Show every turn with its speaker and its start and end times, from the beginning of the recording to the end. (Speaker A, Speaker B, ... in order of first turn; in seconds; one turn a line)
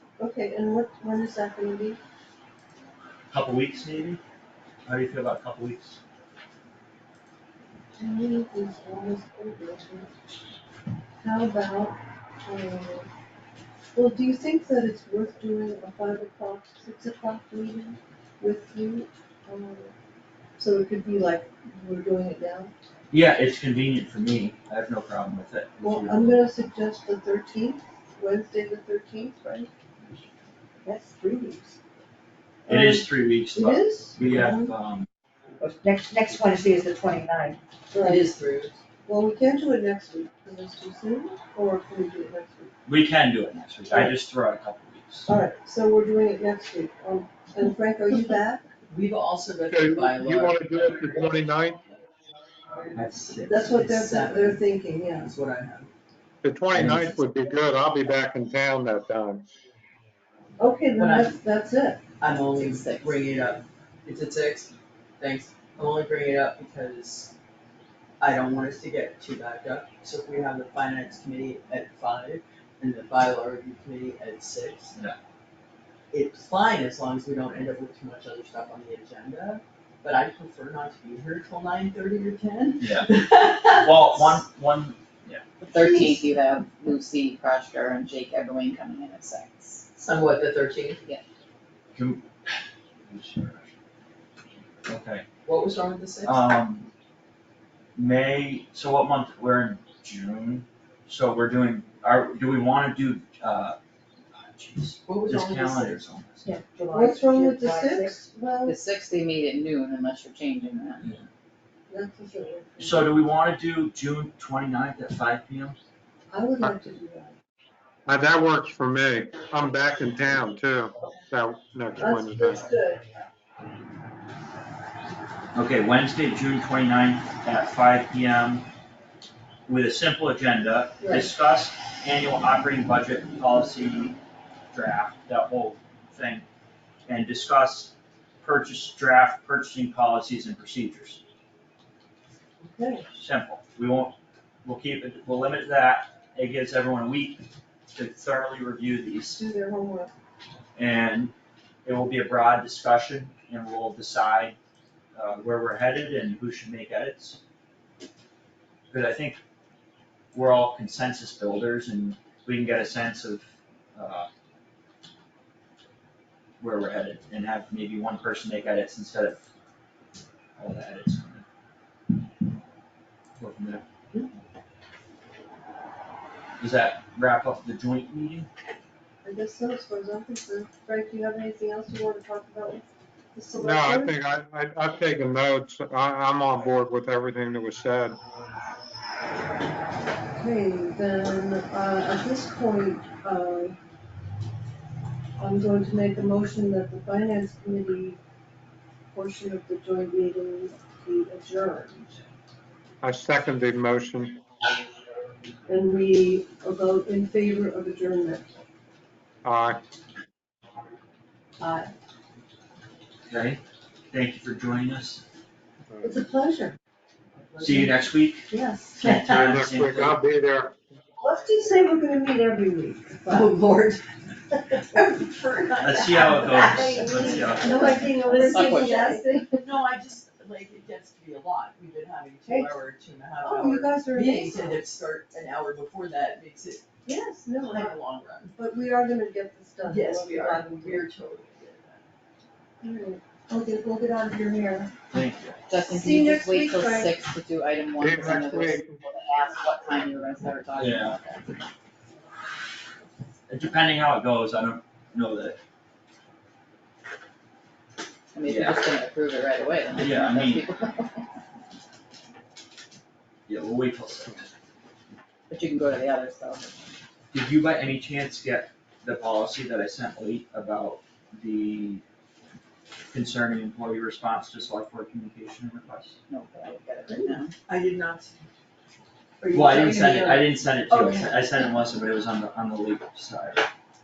Speaker A: 0.2-2.0
Speaker B: 3.3-4.2
Speaker B: 4.9-6.0
Speaker A: 8.0-10.1
Speaker A: 11.2-13.1
Speaker A: 13.9-19.9
Speaker A: 20.6-22.7
Speaker B: 23.1-26.4
Speaker A: 25.8-29.7
Speaker A: 30.8-31.7
Speaker A: 32.6-34.8
Speaker B: 32.7-35.1
Speaker C: 36.1-37.4
Speaker A: 37.9-38.3
Speaker D: 38.0-38.8
Speaker A: 39.0-42.7
Speaker B: 42.9-45.3
Speaker A: 43.9-44.2
Speaker A: 45.3-48.7
Speaker D: 48.9-51.5
Speaker E: 49.7-51.8
Speaker B: 52.9-53.7
Speaker A: 53.5-55.3
Speaker D: 53.6-55.9
Speaker E: 56.4-59.5
Speaker B: 56.7-57.2
Speaker A: 60.6-62.1
Speaker D: 61.0-61.4
Speaker D: 62.2-67.3
Speaker F: 62.6-63.2
Speaker D: 68.2-74.9
Speaker D: 76.1-84.4
Speaker B: 82.8-83.1
Speaker B: 83.7-85.4
Speaker F: 85.6-89.9
Speaker A: 85.8-86.2
Speaker D: 90.0-91.0
Speaker B: 91.9-93.7
Speaker B: 94.9-95.2
Speaker D: 95.5-96.5
Speaker B: 96.2-96.9
Speaker B: 98.0-103.8
Speaker B: 104.3-106.5
Speaker D: 105.1-106.0
Speaker C: 106.5-106.7
Speaker A: 106.9-108.8
Speaker C: 107.6-108.0
Speaker F: 108.6-111.1
Speaker A: 111.9-113.2
Speaker B: 112.8-115.8
Speaker A: 116.3-117.3
Speaker E: 118.1-122.6
Speaker A: 122.0-123.0
Speaker B: 125.5-128.7
Speaker B: 129.7-134.2
Speaker A: 131.0-131.3
Speaker B: 134.7-136.4
Speaker B: 137.1-141.2
Speaker A: 142.6-143.1
Speaker B: 143.1-149.4
Speaker A: 149.2-150.1
Speaker B: 150.8-151.3
Speaker B: 151.8-154.6
Speaker B: 155.1-157.4
Speaker B: 158.9-159.4
Speaker B: 160.3-164.3
Speaker B: 166.6-169.4
Speaker B: 170.6-171.4
Speaker B: 173.4-173.8
Speaker B: 176.6-178.5
Speaker A: 179.2-184.1
Speaker E: 183.6-188.2
Speaker A: 190.3-193.8
Speaker A: 195.4-198.2
Speaker A: 199.1-202.2
Speaker E: 203.0-204.4
Speaker A: 205.7-208.5
Speaker E: 209.4-209.8
Speaker A: 211.6-211.9
Speaker B: 213.3-215.2
Speaker A: 216.0-216.8
Speaker B: 217.6-220.2
Speaker A: 218.5-219.0
Speaker D: 219.2-219.4
Speaker E: 219.2-220.8
Speaker A: 221.2-223.5
Speaker D: 223.3-224.0
Speaker D: 224.7-228.0
Speaker B: 225.8-228.3
Speaker A: 226.2-229.6
Speaker F: 228.2-229.2
Speaker D: 229.6-236.8
Speaker A: 232.5-232.8
Speaker A: 233.4-234.8
Speaker A: 237.1-238.0
Speaker D: 237.6-238.5
Speaker A: 238.5-241.1
Speaker D: 239.8-242.0
Speaker A: 242.8-244.9
Speaker B: 245.1-245.6
Speaker F: 245.7-251.5
Speaker A: 245.9-247.1
Speaker E: 248.0-248.9
Speaker B: 250.8-251.2
Speaker B: 253.5-255.6
Speaker F: 258.3-261.2
Speaker B: 258.4-258.8
Speaker B: 260.0-260.6
Speaker B: 263.5-264.4
Speaker F: 265.5-266.8
Speaker B: 267.3-272.0
Speaker B: 273.1-276.2
Speaker F: 276.3-277.5
Speaker D: 277.1-278.4
Speaker D: 279.4-281.4
Speaker B: 279.5-283.6